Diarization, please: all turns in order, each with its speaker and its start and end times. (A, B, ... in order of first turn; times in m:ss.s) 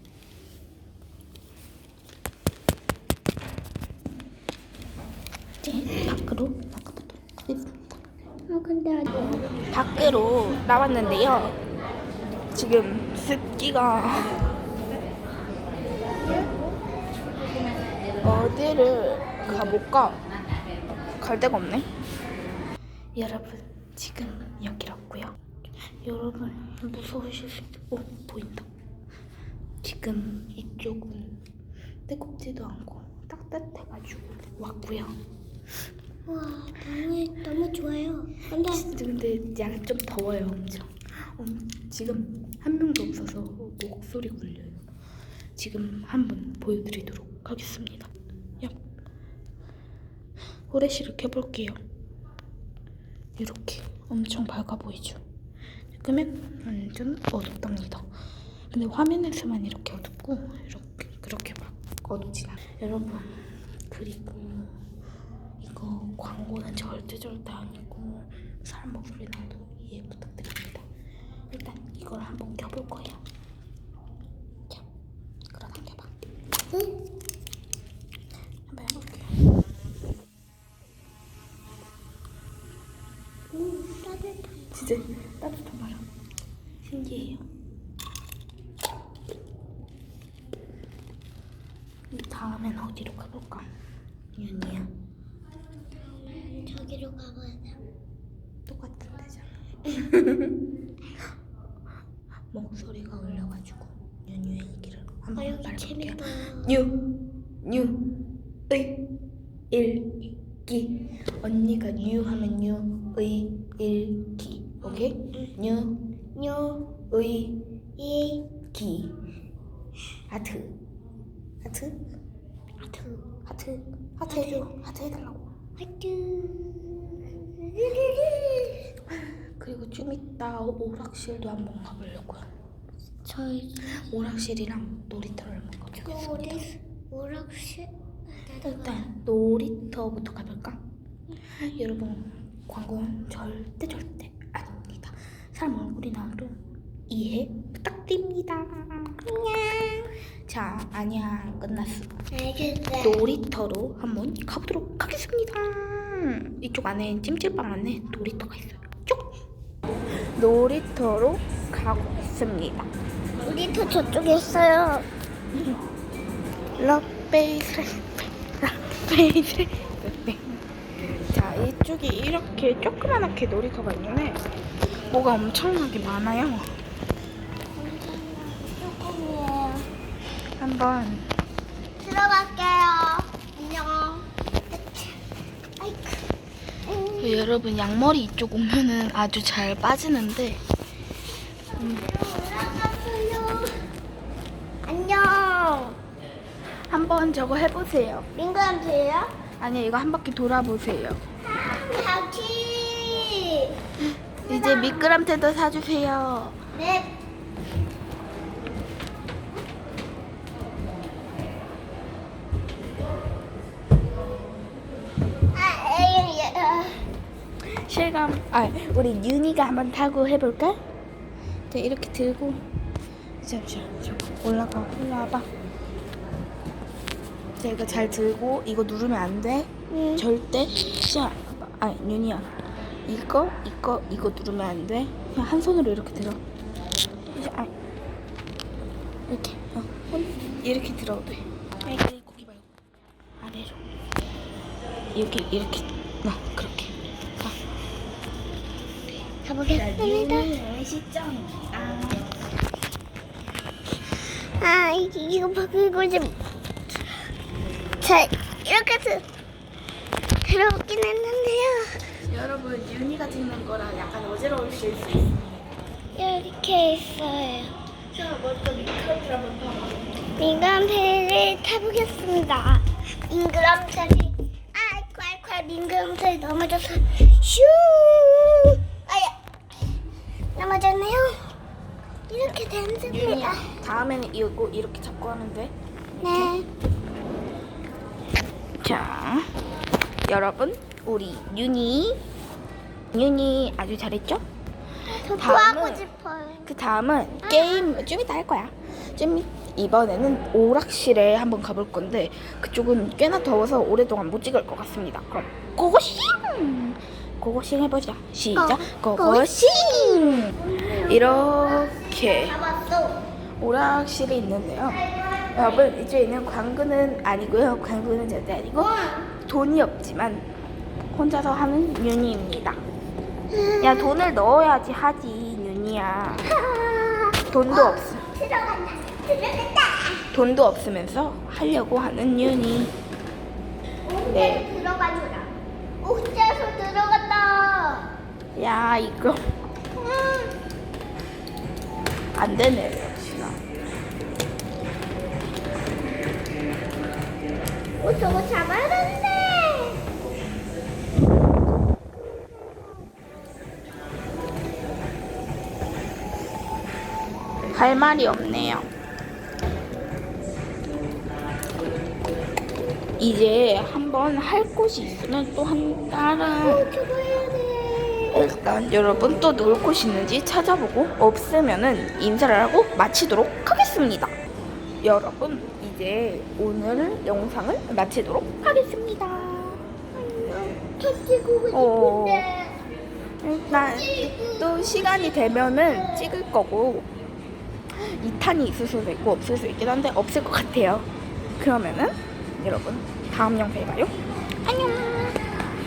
0:05.6-0:08.0 A
0:08.5-0:09.4 B
0:09.7-0:11.6 A
0:12.5-0:14.4 A
0:18.2-0:20.2 A
0:21.2-0:21.9 A
0:23.2-0:25.4 A
0:26.0-0:28.7 A
0:29.8-0:31.4 A
0:32.1-0:35.2 A
0:36.3-0:38.8 B
0:38.7-0:44.8 A
0:45.6-0:48.1 A
0:50.7-0:51.8 A
0:53.4-0:55.2 A
0:55.9-0:58.1 A
0:58.7-1:03.4 A
1:03.9-1:04.8 A
1:05.6-1:10.8 A
1:11.5-1:13.2 A
1:15.5-1:16.1 A
1:18.7-1:19.3 A
1:23.5-1:24.6 B
1:24.7-1:26.0 A
1:26.8-1:27.4 A
1:32.1-1:33.7 A
1:34.4-1:34.9 A
1:35.9-1:37.8 B
1:38.7-1:40.5 A
1:42.5-1:47.0 A
1:45.4-1:46.7 B
1:47.6-1:48.0 A
1:48.7-1:49.0 A
1:49.7-1:50.1 A
1:50.7-1:56.0 A
1:54.9-1:55.5 B
1:56.4-1:56.9 B
1:57.1-1:57.6 A
1:58.0-1:58.5 B
1:58.7-1:59.1 A
2:00.3-2:00.7 A
2:01.6-2:02.0 A
2:02.8-2:03.3 B
2:03.4-2:05.5 A
2:04.3-2:04.7 B
2:05.8-2:08.8 B
2:09.1-2:12.4 A
2:13.2-2:14.0 B
2:13.9-2:16.6 A
2:16.0-2:17.9 B
2:18.4-2:19.0 B
2:18.6-2:20.8 A
2:21.6-2:29.2 A
2:29.2-2:30.1 B
2:30.5-2:32.1 A
2:32.3-2:33.2 B
2:33.0-2:39.3 A
2:40.4-2:42.9 A
2:43.4-2:45.1 B
2:46.8-2:50.5 A
2:51.3-2:54.4 A
2:55.1-2:56.7 A
2:57.8-2:59.9 B
3:00.6-3:01.3 A
3:02.0-3:05.2 B
3:05.8-3:06.3 B
3:06.8-3:07.5 B
3:07.2-3:10.6 A
3:11.8-3:13.8 B
3:11.8-3:12.0 A
3:14.8-3:16.0 B
3:16.9-3:18.3 A
3:18.3-3:19.3 B
3:19.6-3:21.2 A
3:21.5-3:23.8 B
3:24.5-3:25.1 B
3:24.5-3:26.6 A
3:26.7-3:27.1 B
3:35.5-3:37.0 B
3:37.8-3:40.8 A
3:41.7-3:42.6 A
3:43.4-3:45.5 A
3:47.6-3:52.5 A
3:49.9-3:50.3 B
3:53.1-3:56.4 A
3:57.3-3:57.7 A
3:59.3-4:02.7 A
4:03.4-4:03.8 A
4:05.1-4:07.6 A
4:09.4-4:10.5 B
4:09.7-4:12.3 A
4:14.6-4:16.4 B
4:18.0-4:19.2 B
4:20.4-4:22.0 B
4:22.3-4:25.4 A
4:26.2-4:27.8 B
4:28.1-4:30.0 A
4:30.4-4:39.4 B
4:40.6-4:41.5 B
4:42.3-4:43.7 B
4:43.0-4:46.5 A
4:46.2-4:46.7 B
4:48.8-4:49.5 A
4:50.3-4:52.2 A
4:53.1-4:54.4 A
4:55.1-4:56.7 B
4:55.4-4:56.0 A
4:56.6-5:12.6 A
4:57.4-4:57.9 B
5:08.6-5:13.2 B
5:13.6-5:15.0 A
5:14.8-5:15.9 B
5:15.5-5:20.5 A
5:18.8-5:19.3 B
5:21.1-5:22.8 A
5:23.5-5:24.2 B
5:23.8-5:26.5 A
5:26.4-5:30.3 B
5:27.5-5:28.2 A
5:30.3-5:32.9 A
5:34.0-5:38.1 B
5:34.3-5:34.7 A
5:38.6-5:39.4 A
5:40.0-5:40.5 B
5:42.4-5:43.6 A
5:48.0-5:50.0 B
5:52.5-5:52.9 B
5:57.7-5:58.9 A
6:03.2-6:06.8 A
6:06.6-6:08.5 B
6:08.3-6:14.3 A
6:15.0-6:19.8 A
6:20.1-6:22.8 B
6:21.7-6:22.5 A
6:23.4-6:27.1 A
6:23.7-6:26.3 B
6:27.9-6:31.1 A
6:31.6-6:34.1 A
6:34.6-6:35.4 B